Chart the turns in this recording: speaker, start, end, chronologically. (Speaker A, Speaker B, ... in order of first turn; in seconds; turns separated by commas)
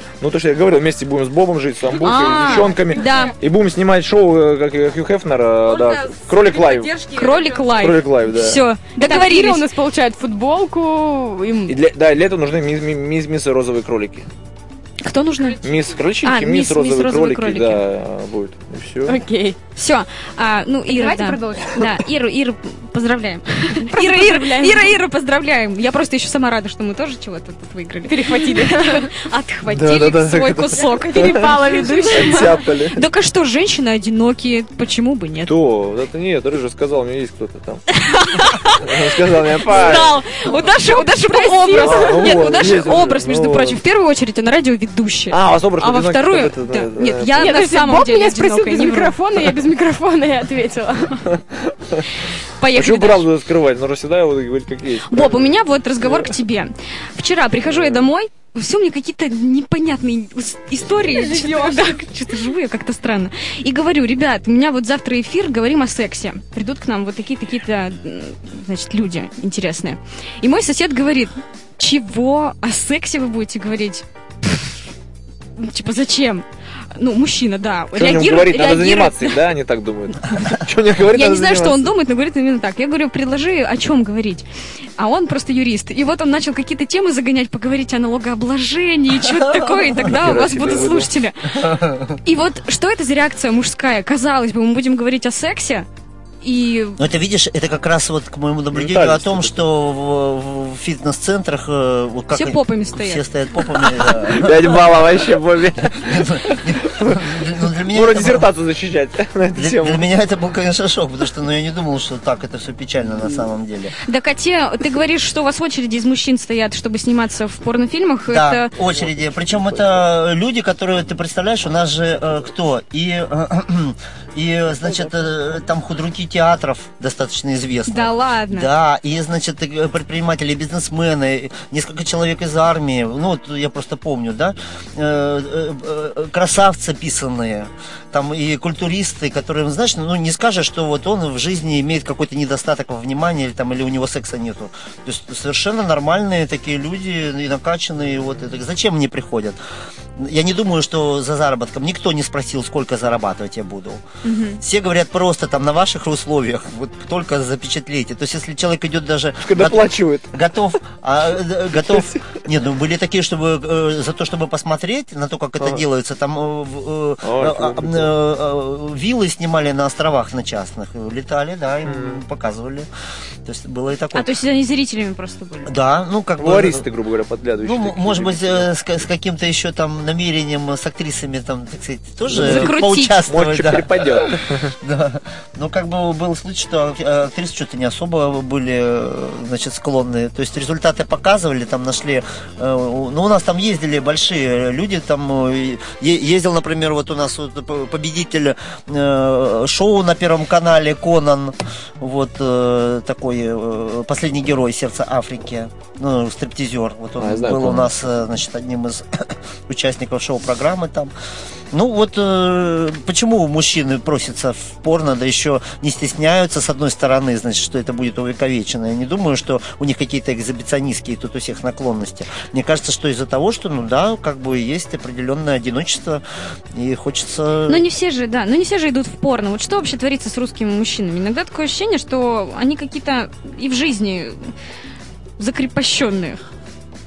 Speaker A: 0.2-7.0, Speaker B: 2.0-3.3, Speaker C: 6.5-7.4, Speaker B: 7.0-9.7, Speaker A: 7.8-8.6, Speaker C: 9.0-11.8, Speaker A: 11.7-14.3, Speaker B: 15.0-15.6, Speaker A: 15.6-19.2, Speaker B: 16.2-17.8, Speaker C: 19.1-19.6, Speaker B: 19.8-35.5, Speaker C: 20.9-22.0, Speaker C: 23.8-25.0, Speaker C: 28.1-29.1, Speaker A: 29.7-33.0, Speaker C: 30.8-32.6, Speaker A: 35.5-37.8, Speaker B: 37.9-39.0, Speaker A: 38.7-40.2, Speaker B: 39.6-49.2, Speaker C: 40.9-42.6, Speaker A: 41.8-43.8, Speaker A: 45.3-47.4, Speaker C: 47.4-51.2, Speaker A: 51.3-52.1, Speaker B: 52.6-53.2, Speaker A: 52.8-55.5, Speaker B: 55.1-74.0, Speaker A: 56.0-56.3, Speaker A: 57.7-58.1, Speaker C: 61.1-62.0, Speaker B: 75.6-76.4, Speaker B: 77.0-79.4, Speaker A: 78.0-81.9, Speaker B: 81.1-84.5, Speaker B: 85.0-91.6, Speaker D: 89.3-89.9, Speaker A: 90.0-91.1, Speaker D: 91.5-92.2, Speaker B: 92.2-95.9, Speaker B: 96.4-97.0, Speaker D: 97.0-104.8, Speaker A: 98.7-99.6, Speaker B: 102.3-103.2, Speaker A: 104.3-107.4, Speaker D: 106.0-108.5, Speaker A: 107.9-110.0, Speaker D: 109.6-113.9, Speaker B: 114.1-118.7, Speaker D: 118.3-149.6, Speaker B: 127.9-128.7, Speaker D: 150.2-154.0, Speaker B: 154.2-154.6, Speaker D: 154.6-172.9, Speaker A: 159.4-160.3, Speaker A: 161.8-162.2, Speaker A: 167.2-168.1, Speaker A: 171.8-172.2, Speaker D: 173.4-174.3, Speaker B: 174.1-175.7, Speaker D: 175.7-176.8, Speaker A: 176.4-178.7, Speaker D: 177.6-211.1, Speaker A: 182.3-182.7, Speaker B: 182.4-183.2, Speaker A: 183.3-184.7, Speaker A: 207.2-207.9, Speaker D: 211.7-226.2, Speaker D: 226.7-227.8, Speaker B: 227.7-234.5, Speaker B: 235.4-236.4